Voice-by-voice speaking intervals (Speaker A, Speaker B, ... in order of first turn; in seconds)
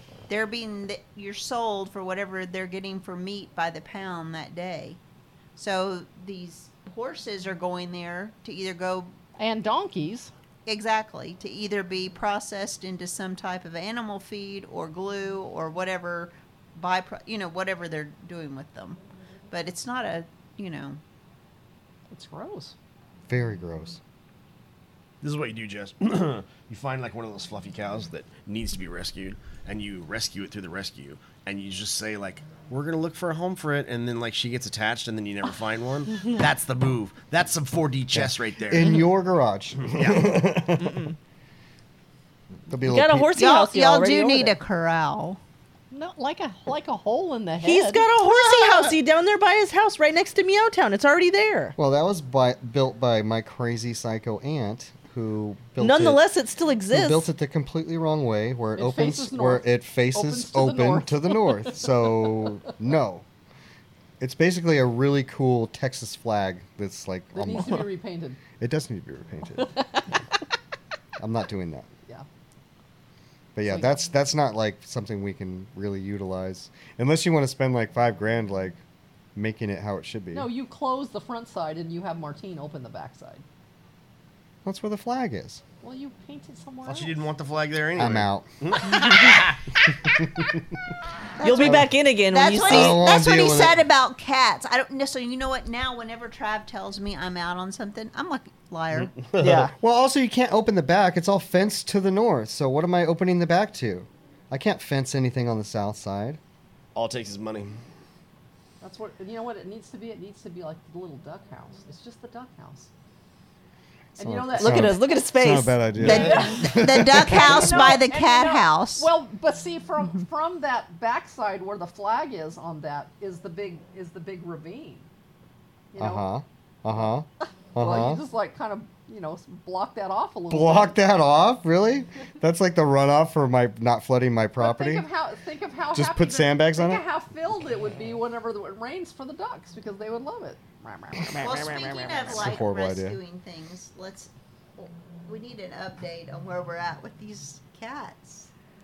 Speaker A: 0.3-5.0, 5.6-9.1, 10.7-19.0, 19.5-21.0, 43.4-45.4, 48.2-49.0, 91.4-99.2, 116.0-119.1, 141.4-148.5
Speaker B: 9.4-10.3, 22.1-22.8, 45.9-48.1, 58.8-61.8, 67.3-68.4, 69.6-70.1, 73.7-74.1, 80.3-83.4, 85.8-87.3, 108.8-112.9, 114.2-115.0, 116.0-125.1, 125.9-126.3, 127.8-131.0, 134.6-141.5
Speaker C: 23.3-24.0, 38.1-41.0, 42.7-43.4, 51.8-56.2, 56.9-63.2, 64.2-67.9, 68.6-69.7, 71.2-71.9, 73.5-78.8, 79.3-80.5, 84.7-85.6, 88.0-88.5, 90.1-90.5, 91.6-91.9, 92.6-93.8, 99.8-106.4, 114.2-118.0, 126.0-128.2, 130.5-135.1, 135.9-137.1, 142.3-143.2
Speaker D: 25.2-39.0, 39.8-40.3, 86.8-89.8, 99.1-99.7, 107.0-107.8
Speaker E: 40.8-41.2, 42.8-44.6, 47.6-51.8, 55.8-57.3, 91.4-93.0, 99.4-99.7, 114.6-115.8, 141.2-142.4